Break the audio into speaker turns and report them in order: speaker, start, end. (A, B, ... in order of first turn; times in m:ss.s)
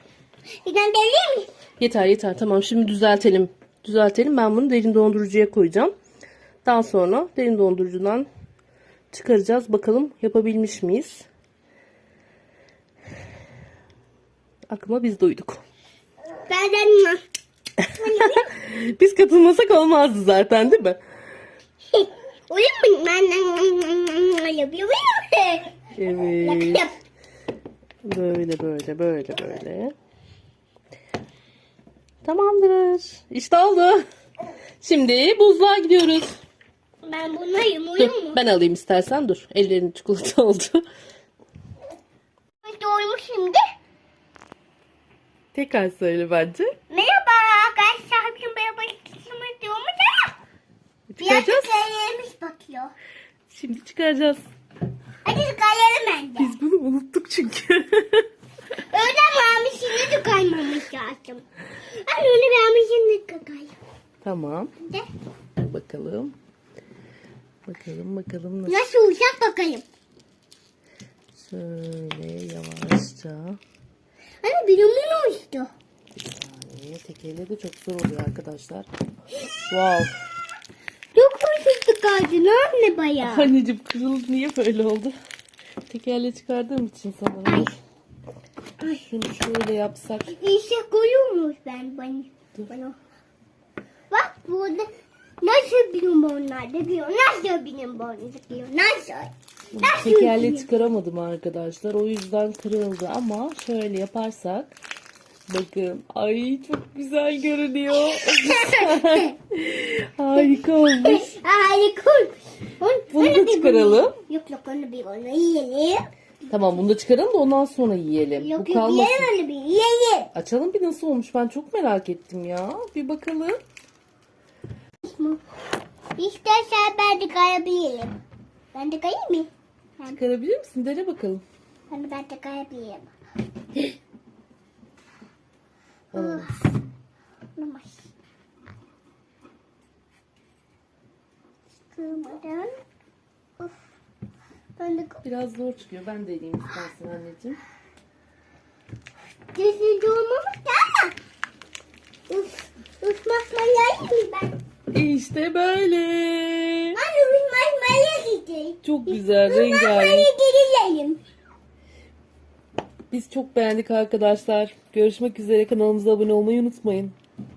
0:00.6-0:01.5 A
0:01.8-0:05.9 B
0:06.6-0:08.3 B
0:09.1-0:11.2 B
0:14.7-0:15.6 B
0:16.5-0:17.2 A
0:17.8-0:21.0 B
0:17.9-0:18.5 A
0:21.9-0:25.7 A
0:25.9-0:26.8 B
0:26.4-0:26.9 A
0:28.0-0:29.9 B
0:32.2-0:34.0 B
0:34.8-0:36.4 B
0:37.0-0:38.4 A
0:38.0-0:40.8 B
0:42.6-0:43.6 A
0:45.5-0:46.7 B
0:46.9-0:50.3 A
0:51.1-0:51.7 B
0:51.2-0:52.9 A
0:53.5-0:54.5 B
0:55.2-0:56.5 A
0:56.4-0:58.2 B
0:58.9-1:01.4 A
1:02.0-1:03.7 A
1:04.2-1:04.7 B
1:05.6-1:06.3 B
1:07.7-1:08.8 B
1:08.7-1:09.8 A
1:11.4-1:13.6 B
1:14.4-1:15.7 A
1:16.1-1:18.9 B
1:19.7-1:20.1 B
1:21.1-1:23.5 A
1:23.2-1:25.1 B
1:25.9-1:27.7 B
1:27.5-1:27.8 A
1:28.9-1:30.3 B
1:30.3-1:33.0 A
1:34.1-1:34.8 A
1:35.4-1:40.7 A
1:39.7-1:44.7 B
1:45.5-1:51.3 B
1:48.0-1:49.3 A
1:50.4-1:56.0 A
1:53.1-1:54.2 B
1:56.5-1:59.3 B
1:58.4-2:00.3 A
2:00.3-2:03.6 B
2:05.0-2:05.4 A
2:06.2-2:08.2 A
2:08.7-2:10.2 A
2:10.1-2:11.4 B
2:11.9-2:13.1 A
2:16.1-2:16.6 A
2:16.1-2:16.5 B
2:17.6-2:18.1 A
2:21.9-2:22.7 A
2:24.8-2:25.2 A
2:25.2-2:27.6 B
2:29.5-2:31.1 A
2:32.3-2:34.6 A
2:34.9-2:37.0 B
2:36.9-2:41.2 A
2:38.8-2:40.3 B
2:43.1-2:47.1 B